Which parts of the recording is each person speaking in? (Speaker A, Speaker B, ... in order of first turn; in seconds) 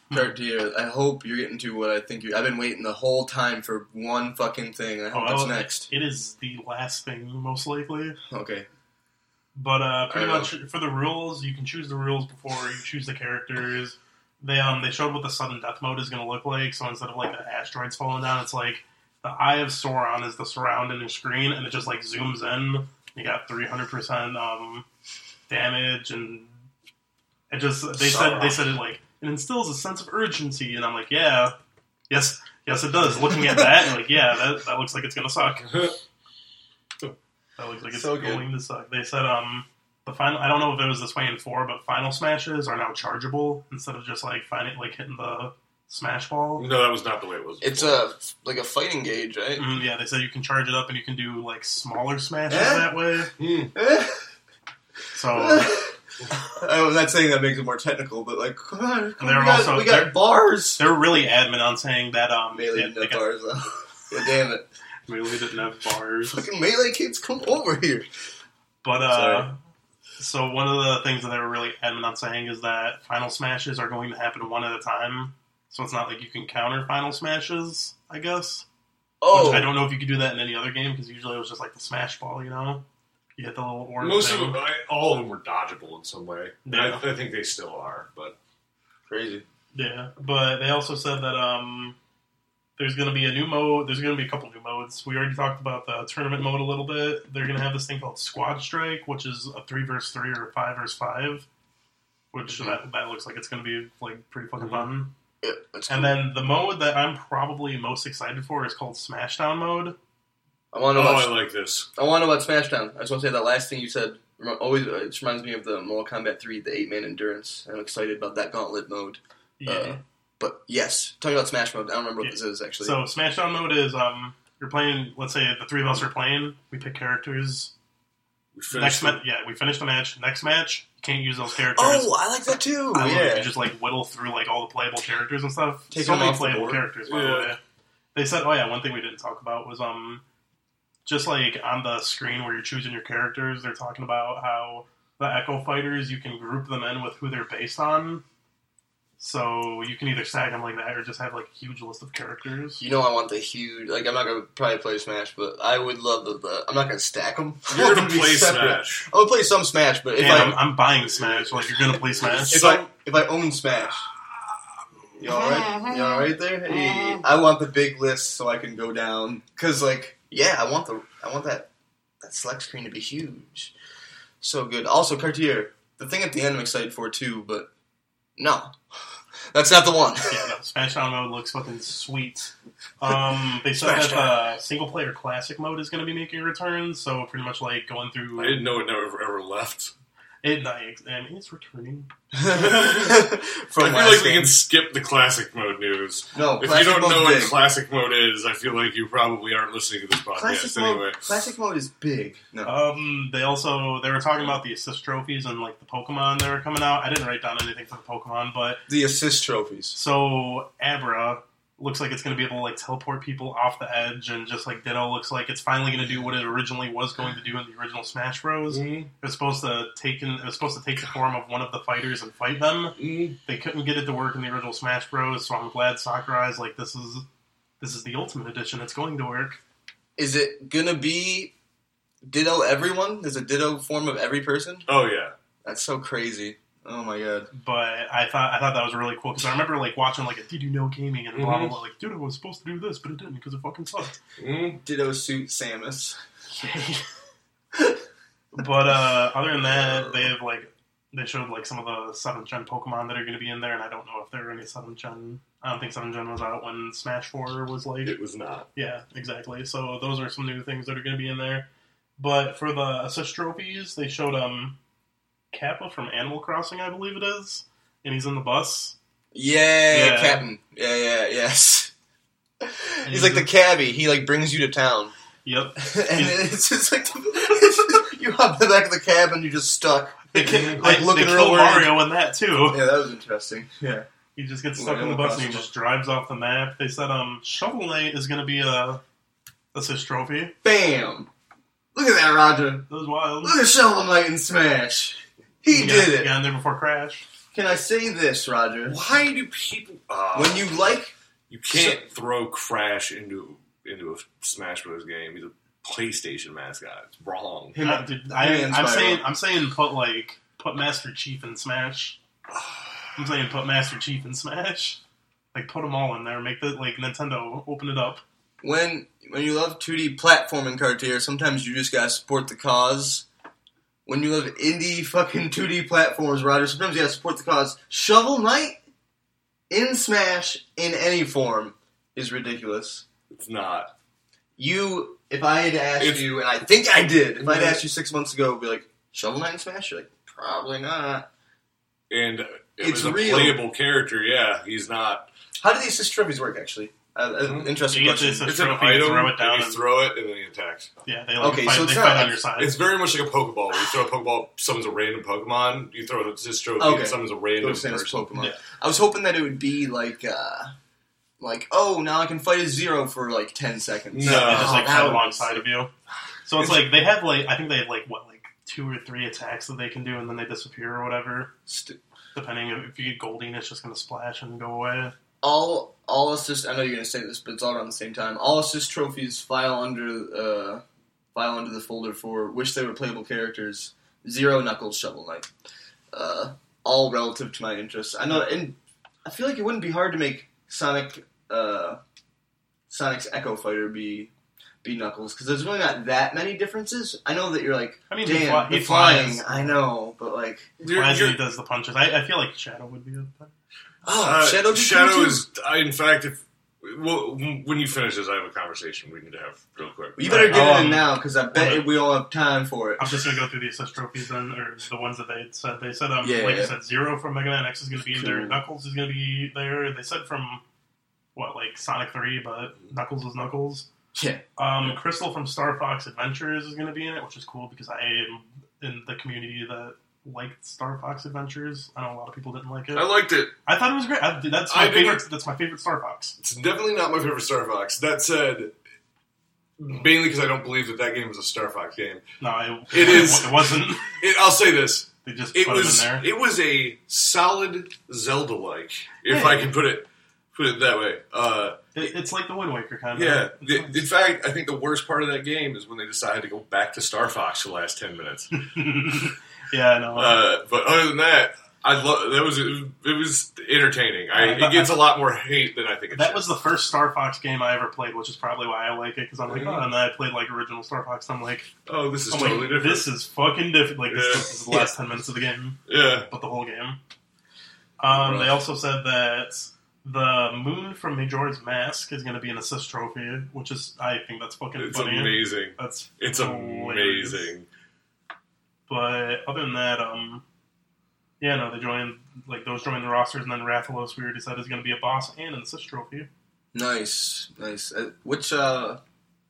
Speaker A: 0.1-5.9, 8.3-8.7, 10.1-10.5, 28.0-28.6, 33.3-33.6, 37.9-38.5, 47.6-49.6, 52.5-52.9, 53.7-54.2, 55.3-56.0, 56.5-60.8, 62.5-64.7, 66.3-68.1, 69.1-69.4, 79.2-79.7, 89.1-89.4, 105.4-106.2, 110.7-111.3, 112.0-123.0, 131.7-133.5, 135.9-136.8, 152.8-160.6, 162.5-164.1, 165.2-171.7, 172.2-173.7, 174.4-177.7, 178.4-180.5, 183.8-184.4, 192.3-194.5, 196.3-197.6, 200.3-202.7, 208.9-209.9, 230.2-231.5, 232.2-234.9, 235.6-237.5, 244.8-246.2, 269.3-271.9, 272.6-275.1, 275.8-282.0, 282.6-284.1, 284.7-285.7, 290.6-291.3, 291.9-292.9, 293.4-296.3, 297.5-299.0, 300.3-301.1, 301.7-302.0, 307.7-309.2, 318.6-323.2, 324.1-328.8, 329.7-333.1, 334.6-341.3, 342.8-343.6, 345.6-348.5, 351.4-352.4, 356.8-360.7, 361.4-365.6, 371.7-372.0, 375.4-380.8, 381.3-385.5, 386.1-392.0, 392.9-394.3, 394.8-400.7, 404.0-405.4, 410.2-413.2, 416.2-416.7, 418.1-418.6, 424.1-424.4, 496.7-499.0
Speaker B: 5.1-8.2, 9.6-24.8, 25.5-26.5, 27.5-31.6, 32.1-35.9, 37.6-46.6, 49.5-53.3, 55.1-55.8, 59.2-60.1, 60.8-63.2, 65.0-66.5, 68.8-69.6, 70.2-78.7, 79.3-82.8, 83.4-84.6, 86.7-87.0, 89.7-92.0, 92.8-101.5, 102.3-105.1, 105.9-110.0, 119.6-120.0, 122.2-127.7, 128.7-132.1, 132.9-137.6, 138.1-140.2, 141.1-148.2, 149.2-152.8, 160.1-162.5, 180.3-188.6, 190.4-192.1, 202.6-208.8, 209.9-227.2, 227.8-229.6, 237.5-244.2, 246.5-247.1, 248.5-258.1, 258.7-264.8, 265.5-268.9, 269.9-270.4, 273.0-273.5, 275.4-276.4, 280.3-282.8, 284.3-289.0, 289.7-290.6, 292.9-293.6, 295.7-297.2, 307.8-312.2, 313.2-315.0, 315.5-318.2, 347.9-349.8, 351.0-352.8, 364.2-365.9, 366.4-371.5, 372.3-375.1, 398.1-399.8, 400.9-403.5, 410.2-411.8, 413.0-420.6, 421.4-423.9, 424.6-433.1, 433.6-436.3, 442.4-444.2, 445.2-446.2, 449.3-449.7, 451.9-453.9, 458.6-460.4, 464.3-465.1, 466.1-471.7, 472.3-477.0, 478.0-487.5, 488.9-490.4, 491.4-496.3
Speaker C: 46.6-48.0, 53.4-53.7, 79.3-79.6, 84.0-88.4, 104.6-104.9, 110.9-111.9, 128.5-129.2, 137.1-137.6, 157.7-159.1, 161.2-162.9, 165.2-167.2, 188.4-189.9, 192.5-201.5, 218.7-219.1, 223.0-223.4, 234.9-235.3, 241.3-241.7, 244.4-244.8, 249.6-250.3, 258.0-258.7, 280.5-280.8, 298.9-300.7, 301.5-307.8, 312.5-313.1, 333.3-333.9, 336.0-336.2, 337.4-337.8, 342.1-345.3, 347.4-347.8, 348.4-350.9, 352.6-358.3, 364.1-365.1, 400.8-401.4, 404.2-411.0, 432.9-433.5, 434.7-435.2, 436.4-438.7, 439.8-442.2, 442.9-452.0, 453.1-458.7, 460.1-466.6, 469.5-469.9, 471.9-473.1, 474.1-474.6, 475.9-476.3, 478.1-478.6, 484.8-487.6